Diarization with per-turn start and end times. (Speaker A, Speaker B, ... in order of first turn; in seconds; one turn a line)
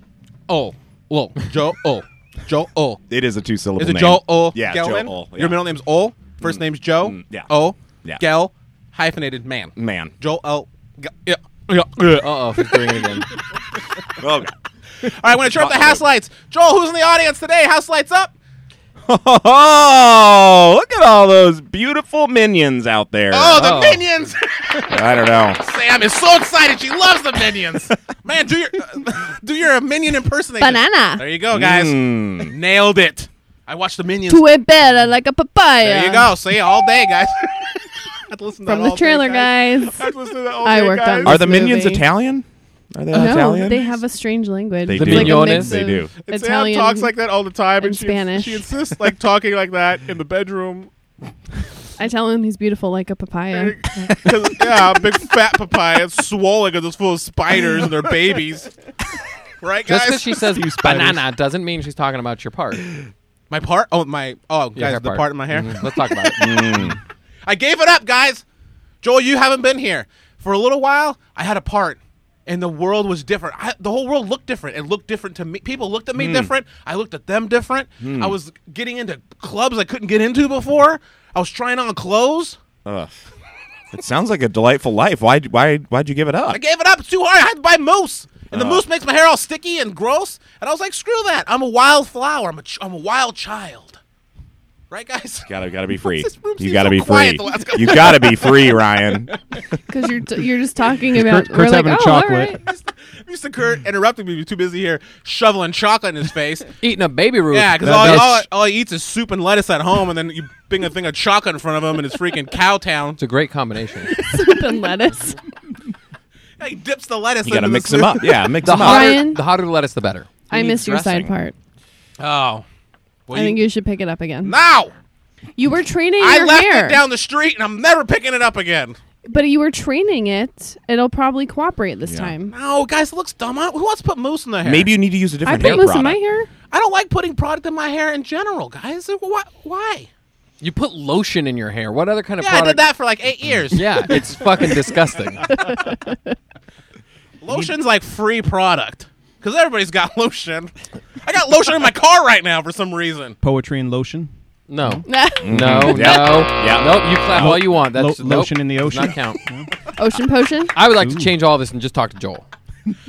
Speaker A: 0.5-3.0
Speaker B: 3.1-5.6
Speaker A: 3.8-13.1
Speaker B: 6.4-7.5
Speaker B: 9.8-10.1
Speaker C: 12.1-13.3
Speaker B: 14.2-14.5
Speaker A: 15.0-18.3
Speaker B: 15.5-16.0
Speaker B: 19.1-23.7
Speaker A: 23.3-34.5
Speaker C: 23.6-24.0
Speaker B: 24.9-25.6
Speaker D: 30.6-31.2
Speaker B: 31.5-32.5
Speaker D: 34.3-36.3
Speaker A: 35.8-41.4
Speaker D: 38.6-42.0
Speaker B: 41.2-43.9
Speaker D: 43.1-47.1
Speaker B: 44.8-46.1
Speaker C: 44.9-45.8
Speaker A: 46.2-50.9
Speaker D: 47.8-48.7
Speaker D: 52.0-54.1
Speaker A: 53.5-58.7
Speaker A: 59.6-60.4
Speaker C: 59.9-62.9
Speaker E: 60.5-61.2
Speaker A: 63.5-66.8
Speaker C: 64.8-66.7
Speaker B: 66.4-67.0
Speaker A: 67.5-68.4
Speaker A: 69.0-82.6
Speaker B: 76.1-76.5
Speaker B: 78.0-78.4
Speaker B: 82.8-83.1
Speaker B: 83.9-86.6
Speaker A: 86.5-94.0
Speaker B: 88.5-88.8
Speaker A: 94.9-98.8
Speaker B: 95.4-99.3
Speaker D: 99.9-102.6
Speaker E: 101.1-102.6
Speaker A: 102.6-106.7
Speaker C: 106.8-108.4
Speaker A: 107.5-113.2
Speaker C: 113.2-114.1
Speaker D: 114.1-115.4
Speaker A: 116.6-118.5
Speaker B: 117.4-119.3
Speaker C: 118.6-120.3
Speaker D: 118.7-119.4
Speaker D: 120.5-121.5
Speaker B: 120.5-121.3
Speaker A: 122.2-122.6
Speaker A: 123.3-123.6
Speaker D: 123.3-124.5
Speaker A: 124.4-124.9
Speaker D: 125.5-127.0
Speaker A: 126.2-129.0
Speaker D: 129.2-132.5
Speaker B: 132.0-132.3
Speaker A: 132.5-134.9
Speaker B: 134.6-136.2
Speaker D: 135.4-136.5
Speaker A: 136.7-140.1
Speaker C: 140.6-142.8
Speaker A: 142.4-144.4
Speaker C: 143.7-145.5
Speaker D: 145.7-146.1
Speaker A: 147.4-150.7
Speaker A: 151.2-153.3
Speaker E: 153.4-154.3
Speaker C: 154.7-159.4
Speaker D: 155.0-156.2
Speaker B: 155.4-157.5
Speaker E: 157.3-159.7
Speaker D: 160.0-160.7
Speaker C: 160.7-162.4
Speaker E: 160.9-161.3